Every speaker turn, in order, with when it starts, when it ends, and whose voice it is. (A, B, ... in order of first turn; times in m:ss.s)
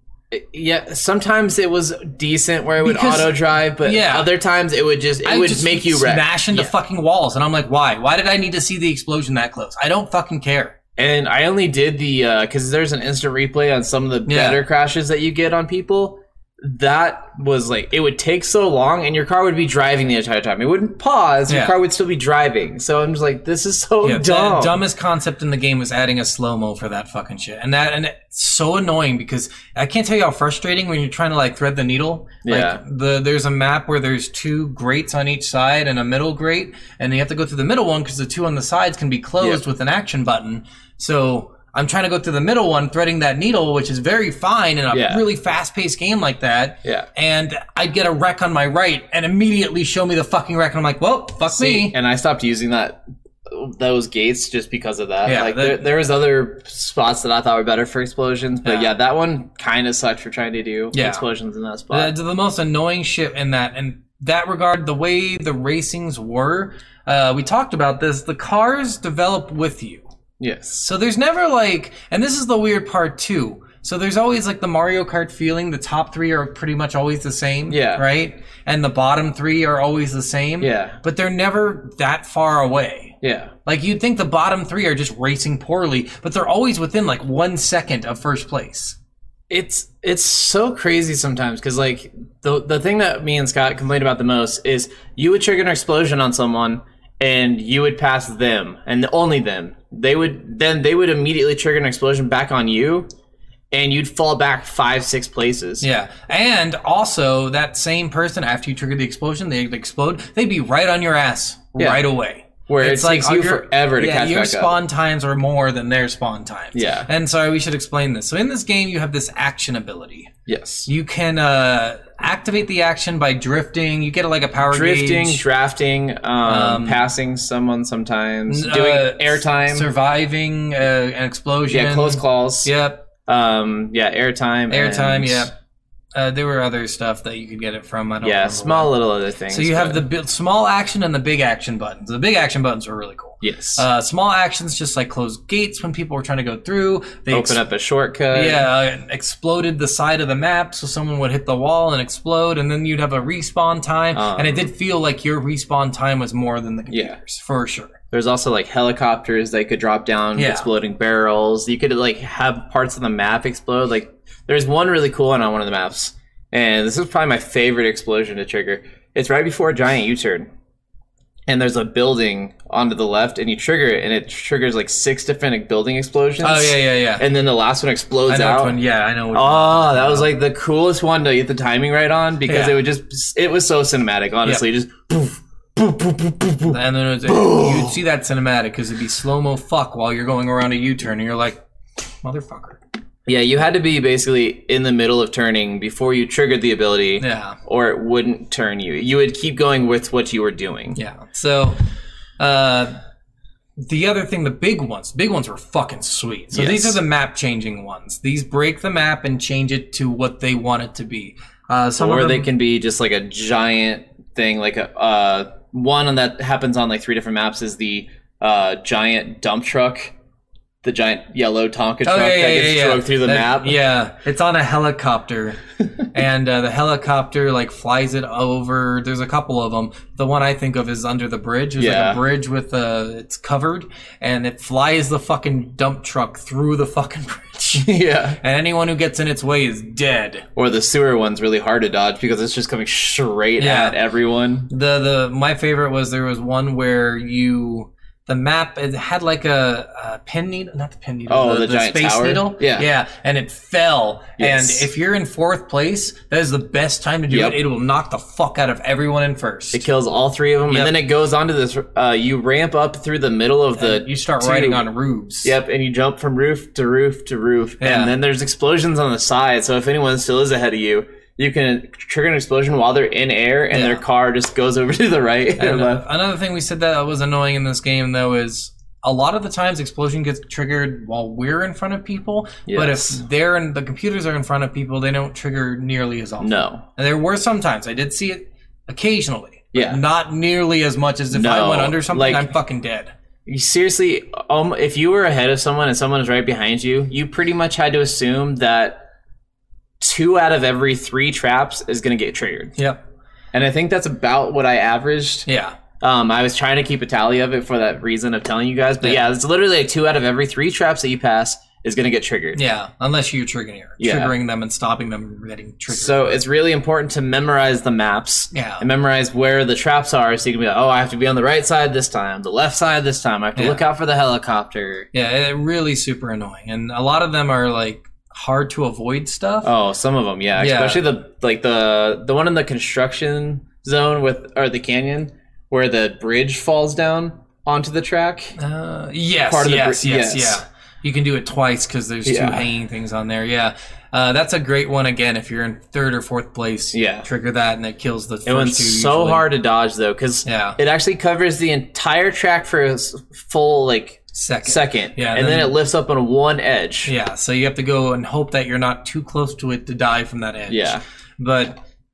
0:00.3-0:06.7 A
0:02.8-0:04.3 B
0:05.2-0:10.8 B
0:11.0-0:24.8 A
0:14.3-0:14.6 B
0:21.5-0:21.8 B
0:24.0-0:52.0 B
0:32.4-0:32.8 A
0:44.9-0:45.2 A
0:51.5-1:02.1 A
0:55.2-0:55.8 B
0:58.6-0:58.9 B
1:00.9-1:01.2 B
1:01.9-1:10.1 B
1:10.4-1:10.8 A
1:10.8-1:29.0 B
1:17.7-1:18.0 A
1:20.6-1:21.0 A
1:23.2-1:23.5 A
1:29.5-1:43.1 A
1:43.7-1:45.8 A
1:45.8-2:00.3 B
1:51.8-1:52.0 A
1:52.7-1:54.8 A
1:56.7-1:57.1 A
2:00.5-2:00.9 A
2:00.8-2:05.4 B
2:04.7-2:09.9 A
2:06.4-2:07.0 B
2:08.5-2:13.1 B
2:11.7-2:15.5 A
2:14.7-2:15.5 B
2:16.1-2:19.0 B
2:18.2-2:20.0 A
2:19.5-2:27.6 B
2:23.4-2:23.8 A
2:27.3-2:28.7 A
2:28.3-2:38.0 B
2:34.1-2:34.7 A
2:36.9-2:37.2 A
2:38.1-2:50.5 A
2:40.3-2:40.7 B
2:51.5-2:58.8 A
2:56.4-2:57.3 B
2:58.3-3:00.3 B
2:59.3-3:08.0 A
3:02.5-3:02.8 B
3:06.7-3:11.6 B
3:12.2-3:12.8 B
3:13.2-3:21.0 A
3:17.2-3:17.6 B
3:20.9-3:21.8 B
3:22.4-3:23.0 B
3:23.8-3:32.5 B
3:26.5-3:27.0 A
3:32.0-3:40.1 A
3:40.8-3:43.8 A
3:42.0-4:00.5 B
3:51.8-3:52.2 A
3:57.8-3:58.4 A
4:00.6-4:04.7 A
4:03.6-4:04.0 B
4:04.7-4:19.8 B
4:11.3-4:12.9 A
4:14.4-4:14.9 A
4:17.3-4:17.6 A
4:19.7-4:24.9 A
4:20.7-4:20.9 B
4:23.8-4:25.5 B
4:25.4-4:36.0 A
4:27.8-4:28.1 B
4:33.7-4:34.0 B
4:35.6-4:53.1 B
4:42.7-4:43.2 A
4:46.4-4:46.8 A
4:49.7-4:50.0 A
4:51.3-4:52.5 A
4:53.4-4:59.1 A
5:00.0-5:02.7 A
5:02.8-5:03.0 B
5:03.5-5:05.5 A
5:05.5-5:05.8 B
5:06.0-5:12.6 A
5:12.6-5:16.4 B
5:14.0-5:14.3 A
5:15.9-5:25.1 A
5:18.5-5:18.8 B
5:23.6-5:23.8 B
5:25.1-5:29.7 B
5:29.6-5:38.6 A
5:30.6-5:31.0 B
5:38.6-5:49.5 B
5:39.5-5:40.6 A
5:42.2-5:42.7 A
5:46.9-5:47.3 A
5:48.4-5:57.1 A
5:50.4-5:50.8 B
5:54.3-5:55.8 B
5:57.1-6:01.8 B
6:00.7-6:01.0 A